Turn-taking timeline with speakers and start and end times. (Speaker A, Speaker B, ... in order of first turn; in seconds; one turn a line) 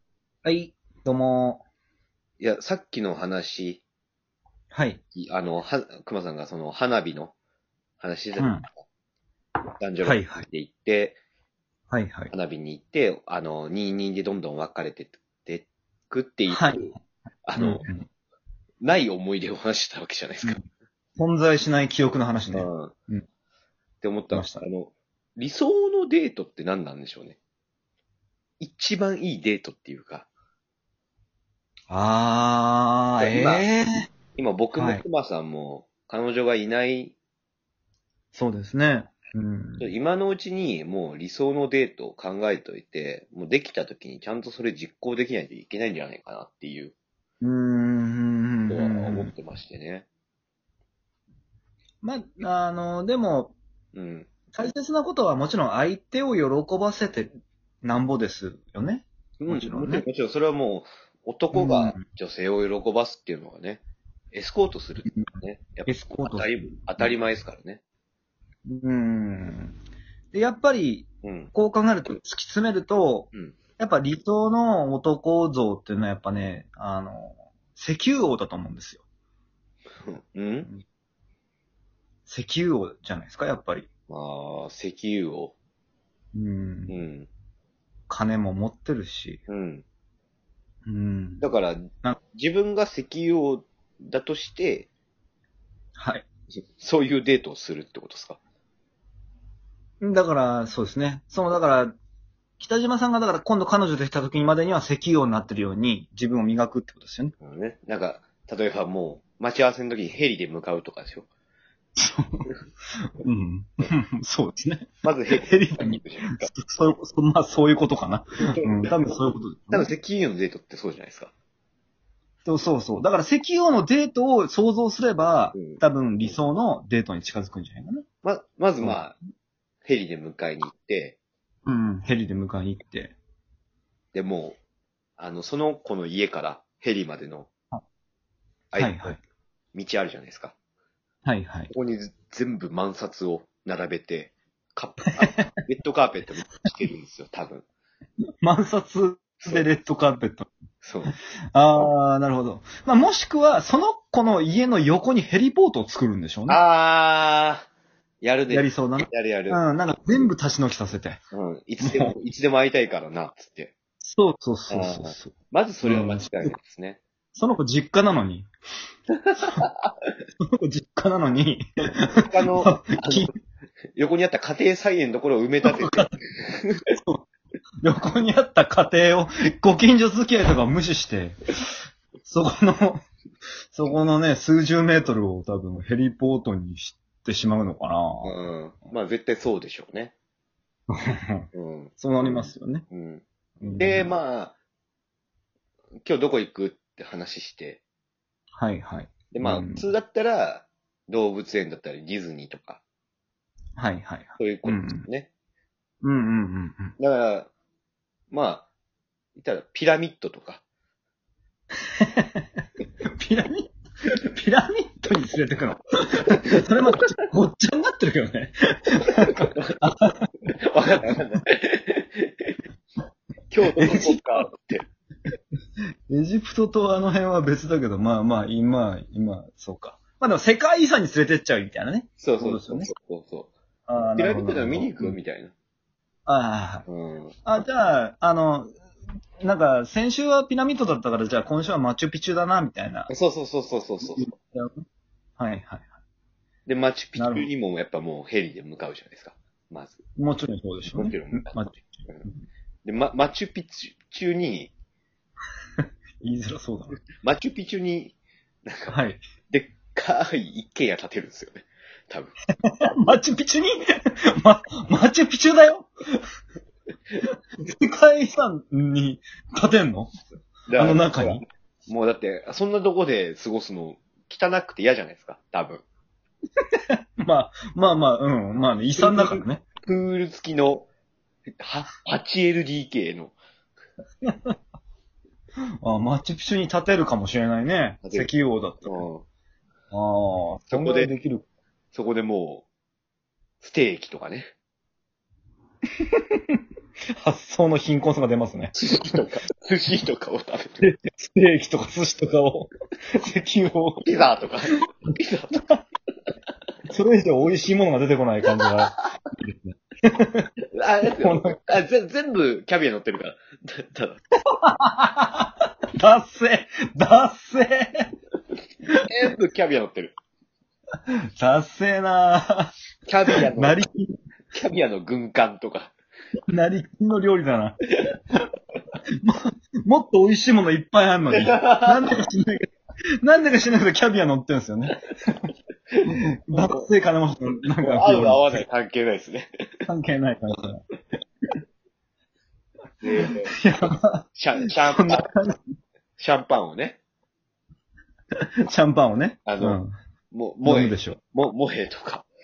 Speaker A: 0.4-1.6
Speaker B: 2.4-3.8
Speaker A: 4.7-5.0
Speaker B: 5.2-7.3
Speaker B: 8.0-8.7
Speaker A: 8.4-8.7
Speaker B: 9.8-11.2
Speaker A: 10.0-10.5
Speaker A: 11.9-12.3
Speaker B: 12.3-16.9
Speaker A: 16.5-17.0
Speaker B: 17.5-17.9
Speaker A: 17.6-18.1
Speaker B: 18.8-20.6
Speaker A: 21.2-23.2
Speaker B: 22.5-22.9
Speaker B: 24.0-27.4
Speaker A: 24.3-24.7
Speaker B: 28.6-30.3
Speaker A: 31.9-33.9
Speaker B: 33.2-33.6
Speaker B: 34.4-37.1
Speaker A: 34.8-35.0
Speaker A: 38.3-39.9
Speaker B: 39.8-46.9
Speaker A: 47.4-49.3
Speaker B: 48.7-50.1
Speaker A: 52.0-53.6
Speaker B: 53.9-54.3
Speaker A: 54.5-57.3
Speaker A: 57.8-60.0
Speaker B: 59.4-67.8
Speaker A: 61.5-62.0
Speaker A: 65.9-67.1
Speaker A: 68.7-69.8
Speaker A: 70.3-79.0
Speaker B: 71.2-71.5
Speaker B: 80.0-80.7
Speaker A: 82.3-83.9
Speaker B: 84.1-85.5
Speaker A: 86.3-87.0
Speaker B: 86.9-87.3
Speaker A: 88.1-89.4
Speaker B: 89.5-89.8
Speaker A: 90.9-91.5
Speaker B: 91.4-94.9
Speaker A: 96.0-96.3
Speaker B: 96.8-98.4
Speaker A: 100.0-101.9
Speaker A: 102.6-107.3
Speaker B: 107.4-111.3
Speaker A: 112.0-112.5
Speaker A: 113.2-119.9
Speaker B: 115.0-116.5
Speaker B: 118.5-119.0
Speaker B: 119.7-121.3
Speaker A: 122.5-128.0
Speaker B: 125.5-126.4
Speaker B: 128.2-129.2
Speaker B: 129.8-131.2
Speaker A: 131.7-133.2
Speaker B: 134.1-134.6
Speaker B: 135.2-137.5
Speaker B: 138.7-139.2
Speaker A: 138.8-139.2
Speaker B: 139.7-140.6
Speaker A: 141.3-141.7
Speaker B: 141.7-147.7
Speaker A: 145.2-145.5
Speaker A: 148.4-150.5
Speaker B: 150.8-151.1
Speaker A: 151.5-156.6
Speaker B: 156.5-157.7
Speaker B: 158.2-159.6
Speaker A: 158.5-161.2
Speaker B: 161.3-163.7
Speaker A: 161.8-162.2
Speaker A: 164.0-166.5
Speaker B: 164.7-167.0
Speaker A: 167.4-168.5
Speaker B: 169.2-169.9
Speaker A: 170.4-173.3
Speaker B: 172.3-173.3
Speaker B: 173.9-176.8
Speaker A: 175.7-176.1
Speaker A: 176.9-177.2
Speaker A: 177.8-181.5
Speaker A: 182.3-183.0
Speaker A: 183.7-188.4
Speaker B: 188.2-190.1
Speaker A: 190.9-191.5
Speaker B: 191.5-193.2
Speaker A: 192.0-192.9
Speaker A: 193.6-194.1
Speaker B: 193.8-194.6
Speaker B: 196.0-197.8
Speaker A: 198.6-199.9
Speaker B: 199.3-202.8
Speaker A: 203.8-205.1
Speaker B: 204.4-205.3
Speaker A: 206.0-206.9
Speaker B: 207.0-207.5
Speaker B: 208.3-208.7
Speaker B: 209.4-210.6
Speaker A: 212.0-212.4
Speaker A: 213.2-220.3
Speaker B: 219.3-219.8
Speaker B: 220.7-222.6
Speaker B: 223.5-224.8
Speaker A: 223.8-224.2
Speaker A: 226.1-232.9
Speaker B: 232.2-233.5
Speaker A: 233.9-235.2
Speaker B: 234.2-235.5
Speaker A: 236.3-236.9
Speaker B: 236.9-237.3
Speaker A: 237.4-238.7
Speaker A: 239.4-243.1
Speaker B: 243.1-244.3
Speaker A: 244.0-244.8
Speaker A: 245.4-245.9
Speaker B: 246.7-250.0
Speaker A: 247.2-247.5
Speaker A: 250.2-252.4
Speaker B: 250.9-252.3
Speaker B: 252.8-254.7
Speaker A: 256.2-257.0
Speaker B: 257.2-262.3
Speaker A: 258.9-259.2
Speaker A: 262.8-265.9
Speaker A: 267.6-270.1
Speaker B: 270.7-275.8
Speaker A: 270.8-271.4
Speaker A: 276.9-279.6
Speaker B: 279.0-280.9
Speaker B: 281.6-283.4
Speaker A: 284.2-284.5
Speaker A: 285.8-289.0
Speaker B: 288.9-289.2
Speaker A: 289.9-291.4
Speaker B: 290.7-291.1
Speaker B: 291.9-292.7
Speaker B: 293.6-294.5
Speaker A: 296.1-296.6
Speaker A: 297.2-298.8
Speaker B: 298.8-300.9
Speaker A: 300.8-304.1
Speaker B: 304.0-305.6
Speaker A: 306.9-310.5
Speaker B: 310.7-314.2
Speaker A: 311.2-311.6
Speaker A: 314.6-318.1
Speaker B: 319.1-320.1
Speaker A: 321.4-322.7
Speaker B: 323.1-323.8
Speaker A: 323.4-324.1
Speaker B: 324.5-325.9
Speaker A: 326.5-327.8
Speaker A: 329.2-332.6
Speaker B: 331.4-331.9
Speaker A: 333.2-335.0
Speaker A: 336.1-338.6
Speaker B: 336.5-336.8
Speaker B: 337.8-339.5
Speaker A: 339.9-340.8
Speaker B: 343.0-343.5
Speaker A: 343.2-344.2
Speaker B: 344.4-345.3
Speaker A: 344.9-345.6
Speaker B: 346.2-347.0
Speaker A: 348.7-349.9
Speaker B: 349.5-349.8
Speaker B: 350.3-352.3
Speaker A: 350.6-351.2